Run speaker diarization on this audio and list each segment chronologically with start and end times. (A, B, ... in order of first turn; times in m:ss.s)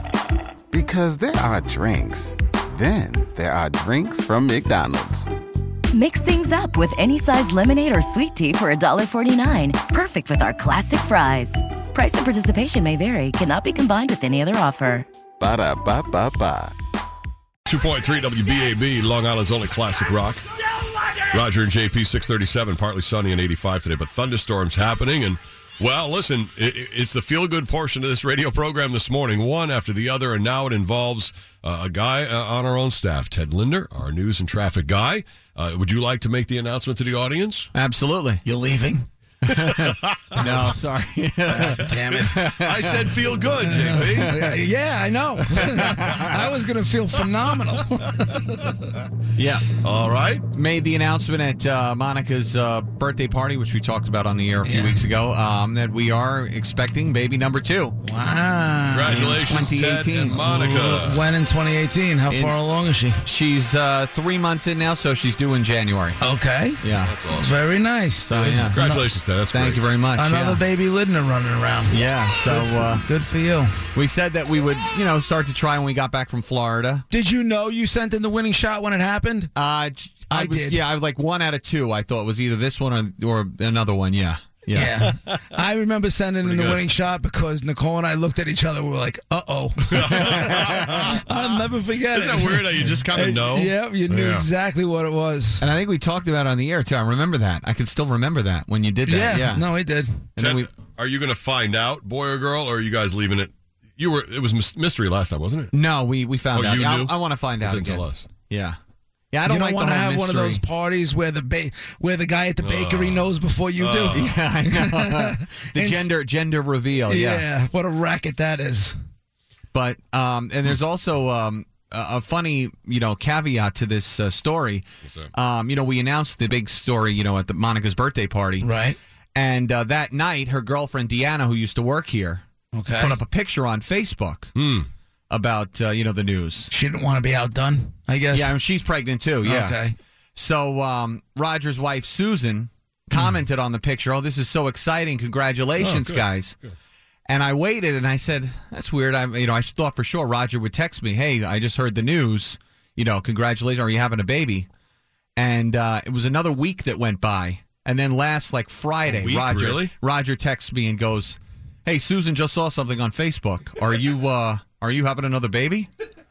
0:00.7-0:05.3 A
0:05.9-0:15.0 B
0:15.4-0:16.7 A
0:17.6-0:20.4 C
0:21.2-0:37.7 C
0:37.7-0:38.4 D
0:38.4-0:39.1 E
0:39.5-0:43.1 D
0:39.7-0:40.5 C
0:40.4-0:40.7 E
0:41.5-0:42.4 E
0:42.0-0:44.3 C
0:43.6-0:49.0 E
0:44.2-0:44.5 D
0:45.6-0:46.3 D
0:49.4-0:49.7 D
0:49.8-0:50.4 C
0:50.5-0:58.0 D
0:54.6-0:55.0 E
0:58.0-0:59.8 E
0:58.9-1:01.2 C
0:59.1-1:00.6 D
1:00.4-1:03.2 E
1:02.3-1:02.6 D
1:03.2-1:06.2 D
1:06.2-1:06.8 E
1:06.8-1:07.2 D
1:07.0-1:07.6 C
1:07.3-1:09.0 E
1:08.2-1:08.8 D
1:08.6-1:09.8 C
1:09.5-1:10.6 D
1:10.1-1:13.7 E
1:11.9-1:13.0 D
1:13.9-1:17.0 D
1:17.1-1:19.5 E
1:19.5-1:25.0 D
1:20.3-1:20.8 E
1:24.7-1:35.7 E
1:26.4-1:26.8 C
1:29.9-1:31.4 C
1:30.0-1:31.2 D
1:32.1-1:34.5 C
1:35.6-1:39.7 D
1:39.0-1:40.3 E
1:40.4-1:40.7 D
1:40.4-1:45.7 C
1:45.7-1:48.8 D
1:46.5-1:48.3 C
1:49.3-1:50.6 D
1:49.4-1:56.1 E
1:52.6-1:54.3 C
1:54.1-1:57.5 D
1:57.1-1:59.0 E
1:59.7-2:08.7 D
2:05.0-2:05.3 C
2:08.6-2:09.0 E
2:09.3-2:14.5 D
2:12.7-2:13.2 E
2:14.5-2:14.9 C
2:15.3-2:16.7 D
2:16.7-2:18.6 E
2:18.3-2:19.8 D
2:19.4-2:19.9 E
2:20.3-2:26.6 D
2:25.8-2:26.7 C
2:27.3-2:34.7 D
2:35.4-2:45.9 D
2:39.0-2:39.9 C